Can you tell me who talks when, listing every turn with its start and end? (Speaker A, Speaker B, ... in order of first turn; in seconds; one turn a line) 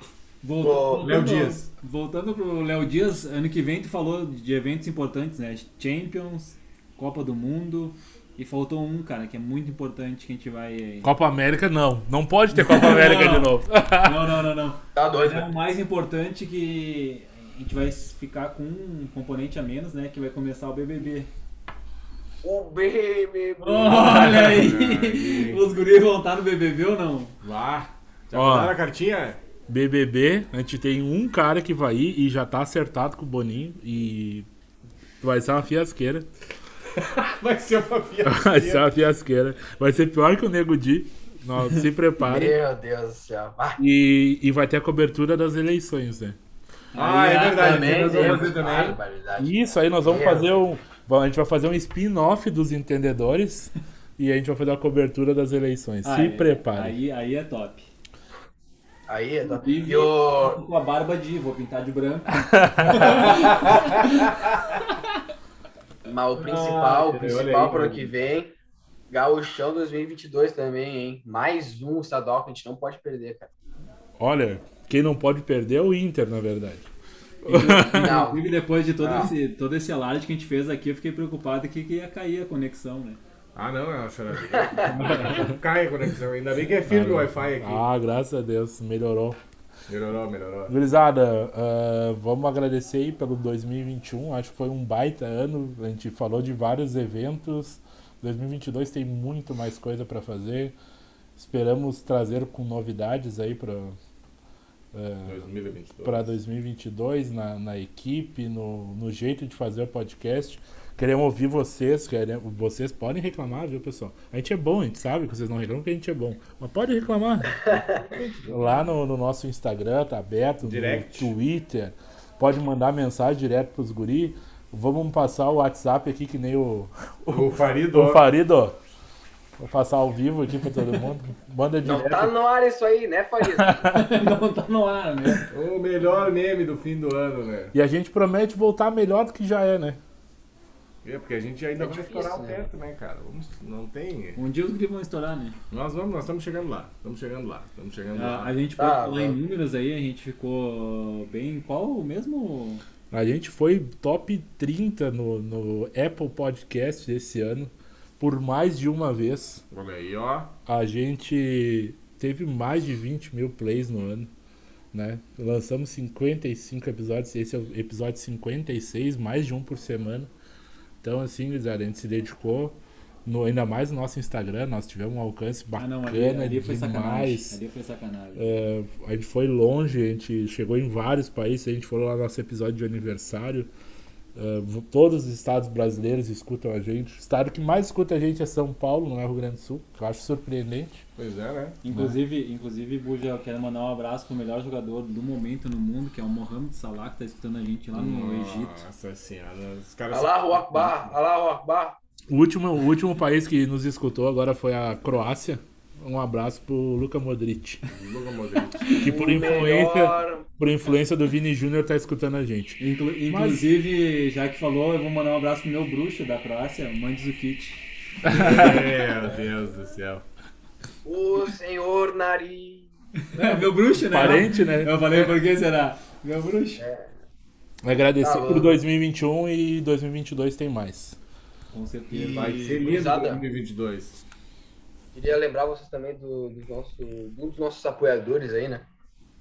Speaker A: 0.4-11.1
Speaker B: 0.6-1.1
Speaker C: 1.0-1.7
Speaker D: 11.0-14.3
Speaker A: 12.5-21.3
Speaker B: 14.9-15.5
Speaker B: 22.4-24.3
Speaker A: 23.6-27.4
Speaker C: 23.9-25.6
Speaker C: 27.4-29.4
Speaker D: 28.3-28.8
Speaker D: 29.7-34.5
Speaker D: 35.2-36.3
Speaker C: 37.0-38.9
Speaker D: 38.2-42.6
Speaker B: 42.2-43.8
Speaker D: 43.8-46.4
Speaker A: 46.9-48.7
Speaker C: 47.0-49.0
Speaker B: 47.5-50.5
Speaker D: 49.4-57.0
Speaker A: 56.0-57.9
Speaker B: 59.1-60.6
Speaker A: 59.4-64.3
Speaker D: 62.5-63.3
Speaker C: 63.3-63.9
Speaker B: 66.0-68.5
Speaker C: 66.4-68.1
Speaker B: 69.1-73.5
Speaker D: 74.2-76.9
Speaker A: 77.4-83.2
Speaker D: 77.5-78.2
Speaker B: 78.0-78.4
Speaker B: 79.0-79.3
Speaker C: 83.5-87.9
Speaker B: 84.5-85.0
Speaker D: 84.9-85.6
Speaker D: 86.9-89.4
Speaker C: 89.9-90.8
Speaker D: 90.7-100.7
Speaker D: 101.4-104.0
Speaker D: 104.9-105.4
Speaker C: 105.2-106.3
Speaker D: 106.0-117.8
Speaker B: 117.6-118.0
Speaker C: 118.2-118.8
Speaker D: 118.4-128.8
Speaker C: 120.6-121.3
Speaker C: 127.3-128.2
Speaker D: 129.6-132.3
Speaker B: 131.8-133.9
Speaker D: 133.4-134.1
Speaker A: 133.9-135.5
Speaker C: 135.5-137.7
Speaker D: 137.7-140.0
Speaker C: 141.0-144.4
Speaker B: 141.8-142.6
Speaker A: 144.4-145.6
Speaker C: 145.7-148.5
Speaker A: 148.1-152.8
Speaker B: 148.8-149.4
Speaker D: 153.1-159.6
Speaker C: 159.7-160.5
Speaker D: 160.7-164.3
Speaker D: 164.9-170.3
Speaker D: 171.0-177.6
Speaker A: 175.8-178.6
Speaker D: 178.4-183.7
Speaker D: 184.3-191.0
Speaker C: 191.2-191.8
Speaker A: 191.8-198.8
Speaker D: 191.9-192.2
Speaker C: 197.9-201.1
Speaker B: 200.1-202.0
Speaker D: 202.3-207.8
Speaker C: 207.9-209.0
Speaker D: 208.9-213.6
Speaker B: 209.0-210.4
Speaker A: 212.8-217.8
Speaker D: 218.2-218.9
Speaker C: 218.3-220.2
Speaker B: 221.1-222.9
Speaker A: 223.3-226.8
Speaker D: 224.0-225.2
Speaker B: 226.8-227.1
Speaker D: 227.8-231.2
Speaker B: 228.2-228.8
Speaker A: 231.7-233.1
Speaker C: 232.1-234.2
Speaker B: 232.8-233.4
Speaker B: 235.1-238.9